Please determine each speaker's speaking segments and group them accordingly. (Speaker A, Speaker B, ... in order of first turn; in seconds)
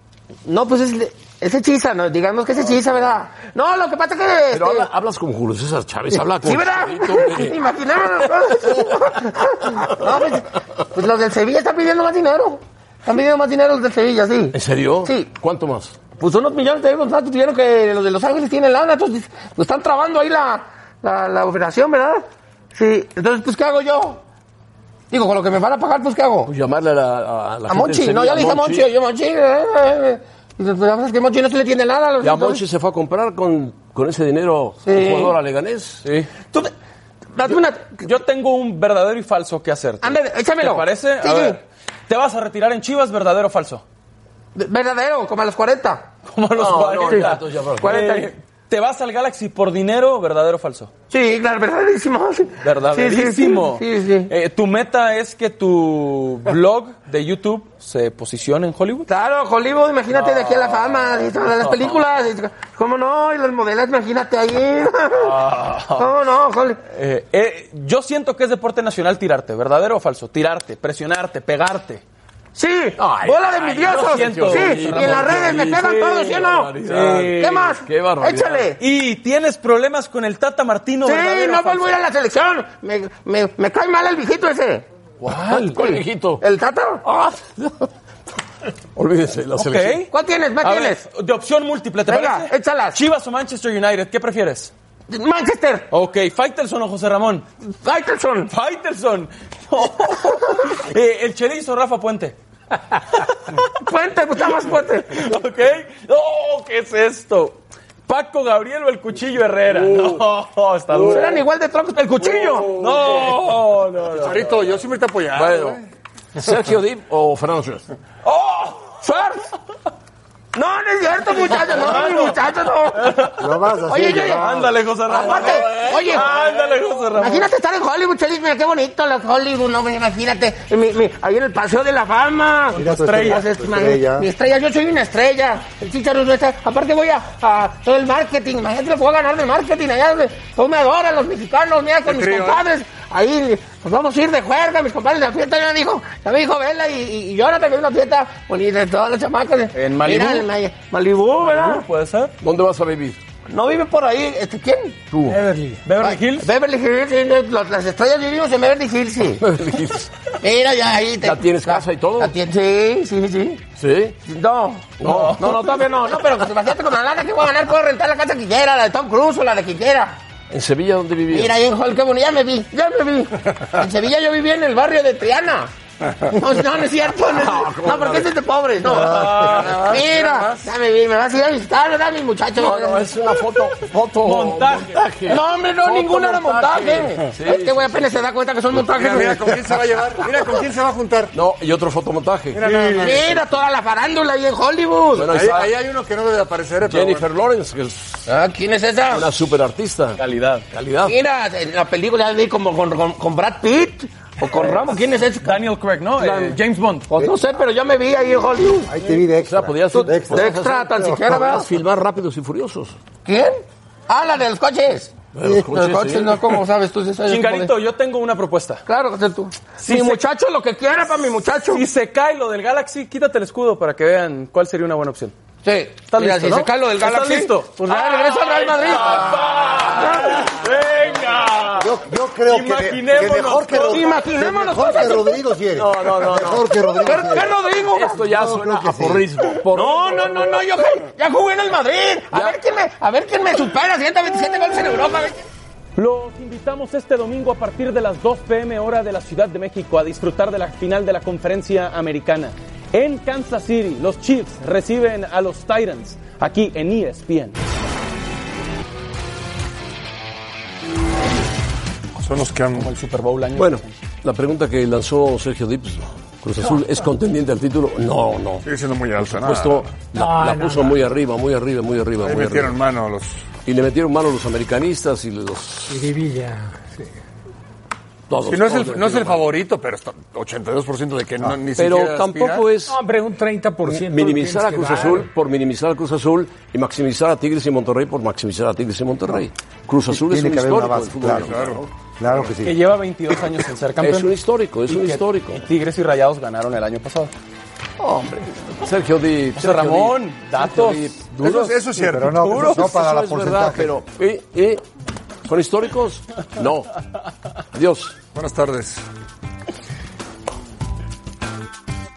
Speaker A: 0.4-4.9, 6.1-15.3, 16.2-24.2, 25.1-26.5, 27.7-32.6, 34.8-35.3, 36.4-36.7, 37.4-38.1, 40.0-41.6, 44.5-46.1, 47.8-48.3, 51.1-54.3, 59.1-65.4, 66.0-66.8, 72.5-76.8, 77.3-78.8, 81.0-84.9, 85.7-87.5, 90.1-91.0, 92.0-93.0, 95.1-95.9, 97.8-98.5, 103.8-105.3, 110.9-112.8, 118.9-119.4, 120.5-123.3, 123.8-126.4, 127.1-151.8, 153.5-155.0, 156.0-159.4, 160.4-163.6, 164.2-170.2, 171.3-175.7, 176.2-183.1, 185.2-189.6, 192.9-195.4, 198.2-199.3, 201.1-205.6, 206.2-206.5, 207.1-208.9, 209.9-211.7, 213.2-217.7, 218.9-221.8, 225.6-230.6, 233.8-235.3, 237.0-238.2, 239.7-245.4
Speaker B: 4.5-8.7, 10.0-10.3, 14.5-16.0, 26.4-28.9, 32.2-36.2, 46.5-48.1, 73.0-78.7, 85.2-86.4, 89.0-90.1, 115.3-115.8, 116.3-117.9, 152.4-153.2, 155.1-155.4, 159.4-160.1, 161.2-162.3, 163.8-164.2, 165.0-165.8, 170.5-171.6, 177.2-178.3, 178.9-179.7, 182.5-188.2, 191.3-193.3, 195.1-195.7, 196.9-198.3, 199.1-200.2, 200.7-201.2, 206.2-206.5, 209.4-213.0, 215.3-216.6, 235.8-240.4, 263.5-268.6, 269.2-272.8, 273.6-276.1, 278.3-279.5, 281.8-283.0, 283.9-291.8, 294.0-295.7, 298.0-301.7, 302.4-304.8, 305.4-306.9, 307.7-308.1
Speaker C: 38.0-43.8, 46.2-50.9, 52.6-59.1, 60.1-62.0, 65.2-66.1, 66.9-72.0, 73.4-75.7, 76.8-77.7, 78.8-81.9, 85.2-85.7, 89.6-90.1, 90.6-94.7, 95.9-97.5, 98.4-102.4, 105.1-111.4, 112.3-114.8, 118.3-118.9, 121.5-122.3, 123.0-123.5, 124.2-127.5, 132.7-133.5, 149.7-150.5, 151.4-152.3, 155.8-156.5, 178.8-179.9, 184.2-185.0, 200.2-200.6, 205.4-207.2, 217.2-218.8, 219.8-220.2, 221.7-225.3, 226.1-234.0, 245.9-257.6, 262.7-263.9, 292.6-294.3, 294.9-297.3, 299.6-301.7, 302.4-302.9
Speaker D: 114.1-115.8, 142.1-142.6, 179.8-180.6, 188.9-191.3, 192.5-193.4, 195.2-197.2, 262.2-262.9, 268.6-269.9, 272.2-273.4, 278.4-282.7, 291.4-291.8, 301.4-302.5, 308.3-309.0
Speaker E: 123.4-124.7, 132.7-134.3, 208.9-210.6, 231.8-237.6, 238.2-239.3, 290.1-292.8, 302.0-304.0
Speaker F: 155.2-155.8, 270.1-271.0, 275.9-277.1, 282.9-285.3